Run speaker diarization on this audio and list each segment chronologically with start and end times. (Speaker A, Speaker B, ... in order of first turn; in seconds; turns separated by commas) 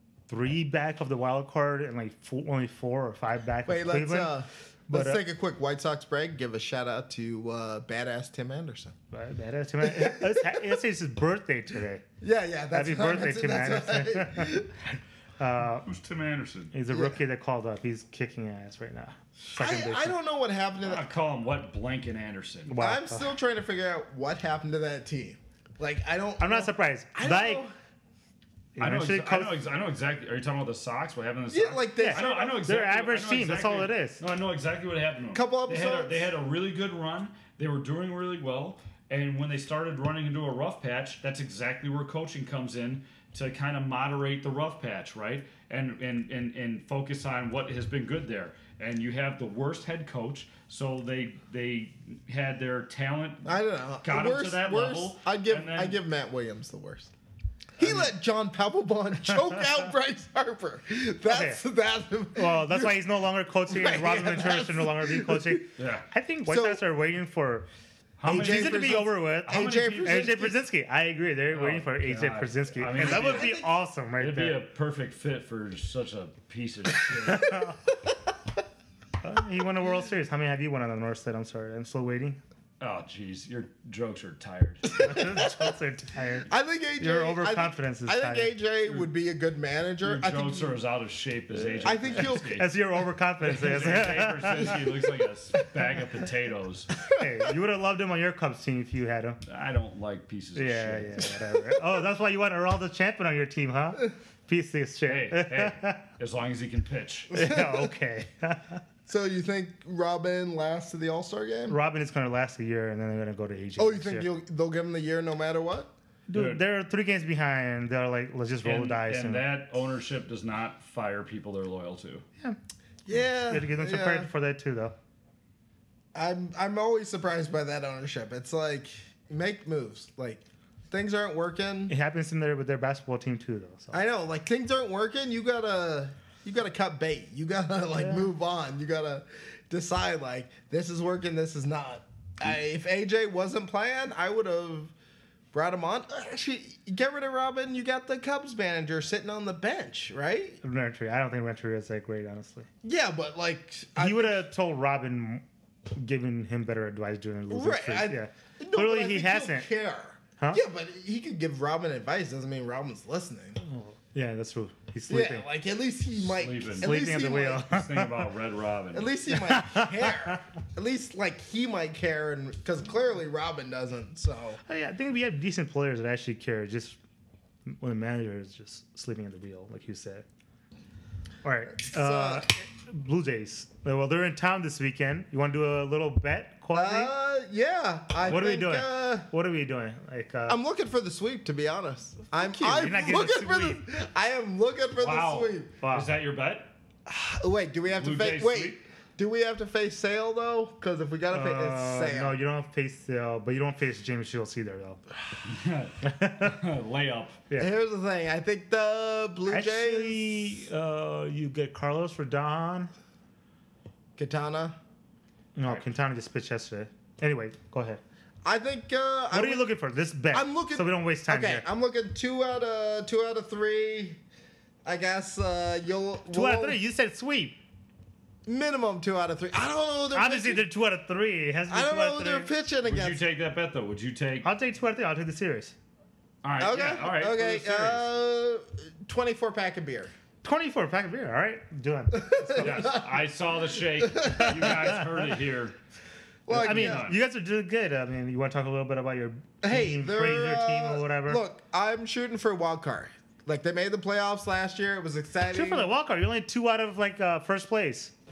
Speaker A: 0.3-4.3, Speaker B: 3.7-8.9, Speaker A: 4.9-5.2, Speaker A: 9.1-12.1, Speaker B: 9.8-10.8, Speaker B: 12.2-14.8, Speaker A: 12.7-14.6, Speaker A: 15.4-15.9, Speaker C: 15.8-16.7, Speaker A: 16.7-20.1, Speaker B: 16.9-17.2, Speaker B: 19.5-21.1, Speaker C: 20.8-22.7, Speaker A: 22.7-23.3, Speaker B: 22.8-27.7, Speaker A: 26.4-27.6, Speaker A: 28.8-29.6, Speaker C: 28.8-56.0, Speaker B: 31.5-32.6, Speaker A: 32.0-34.2, Speaker B: 35.3-36.3, Speaker B: 53.5-57.1, Speaker B: 57.8-63.0, Speaker A: 61.3-61.6, Speaker A: 62.4-67.7, Speaker B: 63.7-65.7, Speaker C: 65.8-66.1, Speaker B: 66.5-66.8, Speaker C: 68.2-70.4, Speaker B: 68.3-70.6, Speaker A: 68.3-74.6, Speaker C: 71.5-73.6, Speaker B: 72.9-73.7, Speaker C: 74.2-77.6, Speaker A: 77.2-77.8, Speaker A: 79.2-82.4, Speaker C: 82.8-84.9, Speaker B: 84.9-85.7, Speaker A: 85.0-88.5, Speaker B: 86.5-90.8, Speaker C: 90.0-92.7, Speaker B: 91.8-92.6, Speaker A: 92.2-94.8, Speaker C: 93.5-96.9, Speaker A: 97.1-99.4, Speaker C: 99.5-101.3, Speaker A: 100.6-106.0, Speaker C: 105.1-107.3, Speaker A: 107.3-108.8, Speaker B: 107.3-107.9, Speaker B: 109.1-111.8, Speaker A: 111.7-114.3, Speaker B: 113.8-115.9, Speaker A: 116.3-119.5, Speaker C: 116.3-116.6, Speaker C: 118.6-122.2, Speaker B: 123.1-124.3, Speaker A: 123.1-124.9, Speaker B: 126.1-131.9, Speaker A: 131.9-134.0, Speaker B: 133.9-144.9, Speaker A: 138.0-138.3, Speaker B: 145.5-150.6, Speaker A: 150.6-152.7, Speaker B: 152.8-154.5, Speaker A: 154.0-159.7, Speaker B: 157.5-163.6, Speaker A: 163.6-165.5, Speaker B: 165.1-167.7, Speaker C: 166.3-167.0, Speaker A: 166.8-168.1, Speaker C: 167.6-169.1, Speaker B: 168.9-174.6, Speaker A: 169.3-170.4, Speaker A: 174.7-177.0, Speaker A: 177.7-180.2, Speaker A: 181.4-187.1, Speaker B: 181.9-182.5, Speaker B: 186.7-189.3, Speaker A: 188.2-190.6, Speaker B: 190.5-195.7, Speaker A: 192.4-193.8, Speaker C: 195.0-196.7, Speaker A: 195.8-196.1, Speaker B: 197.1-202.4, Speaker C: 197.9-198.8, Speaker A: 201.3-205.0, Speaker C: 205.4-207.4, Speaker A: 206.0-206.6, Speaker B: 207.6-210.6, Speaker A: 209.5-212.9, Speaker B: 214.2-214.8, Speaker A: 215.6-218.0, Speaker B: 218.4-219.7, Speaker A: 219.3-221.7, Speaker B: 220.3-224.2, Speaker B: 224.8-226.8, Speaker A: 226.3-227.6, Speaker B: 228.5-230.7, Speaker A: 230.1-232.5, Speaker B: 231.7-233.2, Speaker C: 232.8-234.5, Speaker A: 234.4-235.8, Speaker C: 236.4-238.1, Speaker B: 236.6-240.1, Speaker A: 240.4-242.7, Speaker B: 242.1-243.3, Speaker C: 242.6-245.8, Speaker B: 243.9-245.2, Speaker B: 246.5-247.1, Speaker C: 246.5-247.2, Speaker A: 246.5-251.4, Speaker B: 249.6-255.9, Speaker A: 255.5-258.1